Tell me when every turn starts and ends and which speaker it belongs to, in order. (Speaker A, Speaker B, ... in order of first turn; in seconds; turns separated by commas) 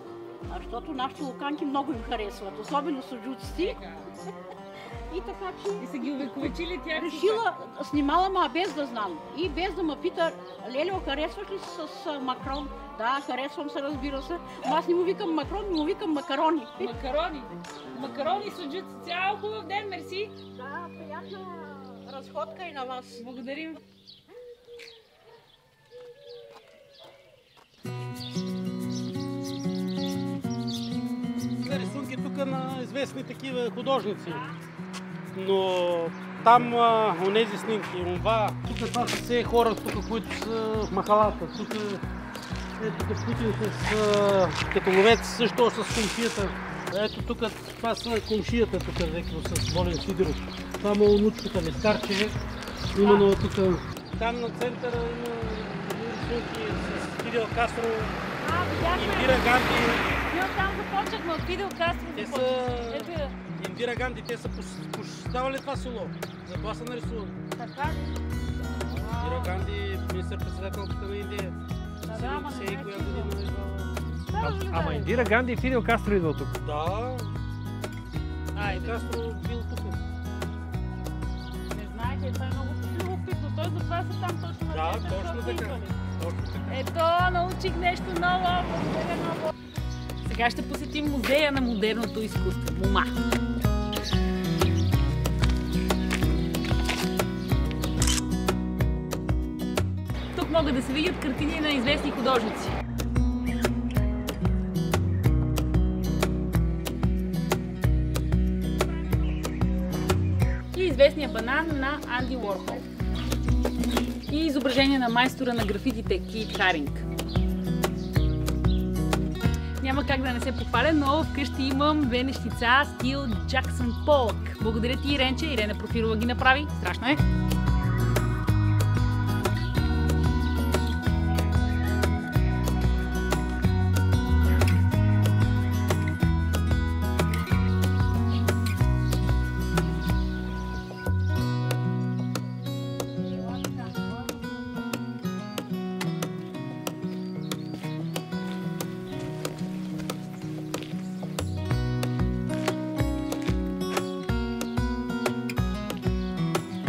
Speaker A: 0.5-3.8, Speaker B: 3.5-4.1, Speaker A: 5.1-6.1, Speaker B: 5.8-7.5, Speaker A: 7.0-16.9, Speaker B: 16.8-20.4, Speaker A: 20.5-23.2, Speaker B: 23.2-23.8, Speaker C: 31.6-34.4, Speaker B: 34.2-34.6, Speaker C: 35.3-42.0, Speaker C: 42.8-52.4, Speaker C: 52.9-58.2, Speaker B: 53.0-53.3, Speaker B: 58.4-59.6, Speaker C: 58.9-60.2, Speaker B: 60.2-63.4, Speaker C: 62.1-67.4, Speaker B: 67.6-68.2, Speaker D: 68.6-69.1, Speaker B: 69.0-69.6, Speaker C: 69.1-71.5, Speaker B: 72.0-73.3, Speaker C: 72.1-74.0, Speaker B: 74.0-75.3, Speaker D: 74.4-76.6, Speaker C: 76.6-77.3, Speaker B: 78.5-79.0, Speaker C: 78.6-80.0, Speaker B: 81.7-86.0, Speaker C: 84.7-86.8, Speaker B: 86.7-89.5, Speaker B: 90.2-93.2, Speaker B: 100.3-102.8, Speaker B: 110.7-112.9, Speaker B: 114.3-117.1, Speaker B: 119.8-127.2, Speaker B: 143.3-144.4